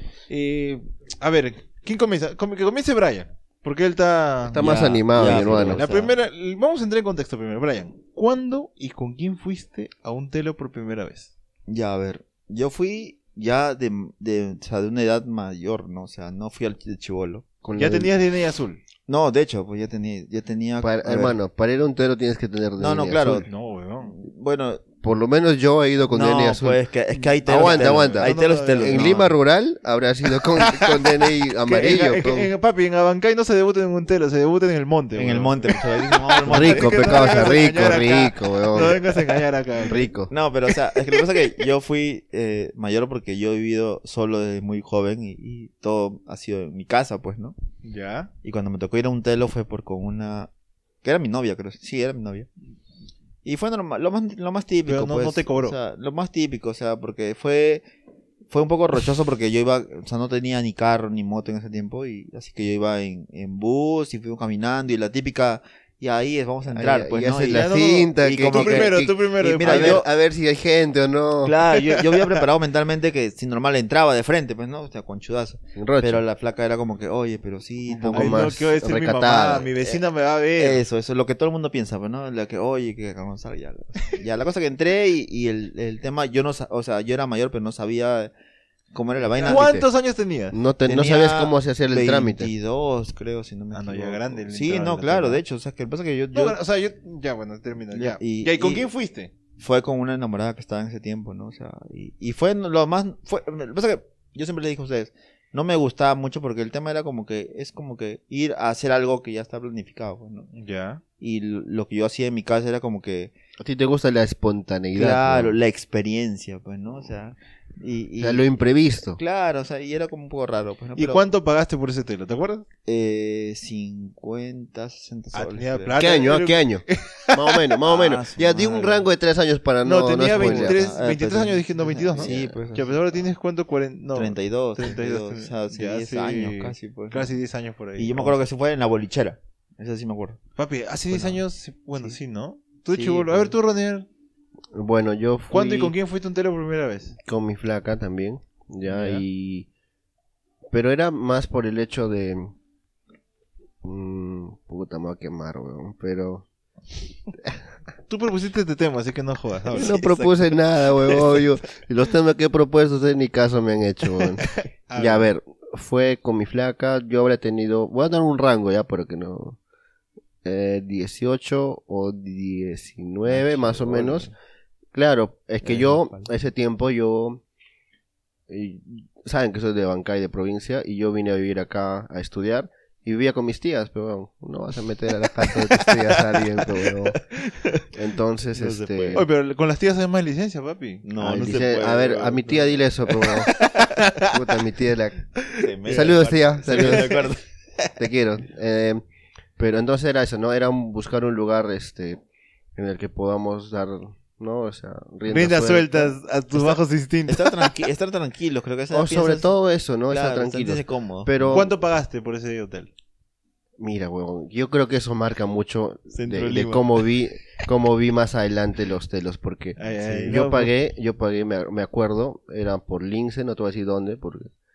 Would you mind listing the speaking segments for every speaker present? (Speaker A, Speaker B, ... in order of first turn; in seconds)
Speaker A: 0.3-11.3, 17.8-18.8, 23.4-24.1, 27.1-29.2, 30.5-40.1, 41.0-41.2, 47.8-48.3, 54.8-55.8, 67.5-70.0, 71.8-72.2, 78.1-80.8, 89.4-90.6, 93.7-95.4, 96.3-99.3, 110.5-111.0, 121.0-122.7, 125.3-127.7, 129.8-138.4, 140.6-144.1, 145.5-147.1, 148.8-149.2, 158.1-160.0, 164.4-165.3, 185.7-186.2, 189.1-191.0, 193.5-194.3, 195.4-196.1, 196.7-197.3, 205.3-207.7, 211.4-212.9, 219.8-220.7
Speaker B: 4.5-5.9, 17.6-18.1, 20.8-23.5, 25.0-26.8, 27.4-32.5, 36.5-39.0, 39.8-40.3, 66.7-71.5, 75.8-76.2, 77.9-79.7, 89.3-89.8, 90.5-92.5, 113.6-115.5, 118.2-119.2, 126.0-130.9, 132.2-132.6, 144.7-145.9, 147.2-149.7, 150.7-152.5, 153.8-156.4, 159.7-169.6, 170.4-174.3, 174.9-177.4, 178.5-187.2, 187.9-189.2, 191.2-193.5, 194.2-195.2, 195.8-197.3, 198.0-199.0, 199.6-202.2, 202.7-206.1, 208.9-211.7, 213.8-224.5
Speaker C: 4.6-6.1, 11.7-17.4, 19.1-21.4, 22.8-23.5, 24.0-24.8, 26.1-29.3, 35.1-37.4, 40.3-47.5, 48.4-50.5, 51.0-52.5, 53.4-57.8, 58.5-70.0, 71.4-78.4, 80.6-88.3, 88.9-89.8, 90.8-96.6, 97.9-98.9, 99.6-110.5, 111.2-113.3, 114.9-118.5, 119.0-121.3, 122.8-126.0, 127.8-129.1, 130.3-133.0, 134.1-137.3, 138.0-140.4, 141.1-141.4, 142.9-143.5, 159.7-161.4, 173.3-174.3, 175.6-176.3, 188.5-189.3, 191.0-193.4, 195.6-198.0, 206.5-209.5, 210.1-211.7, 216.1-217.1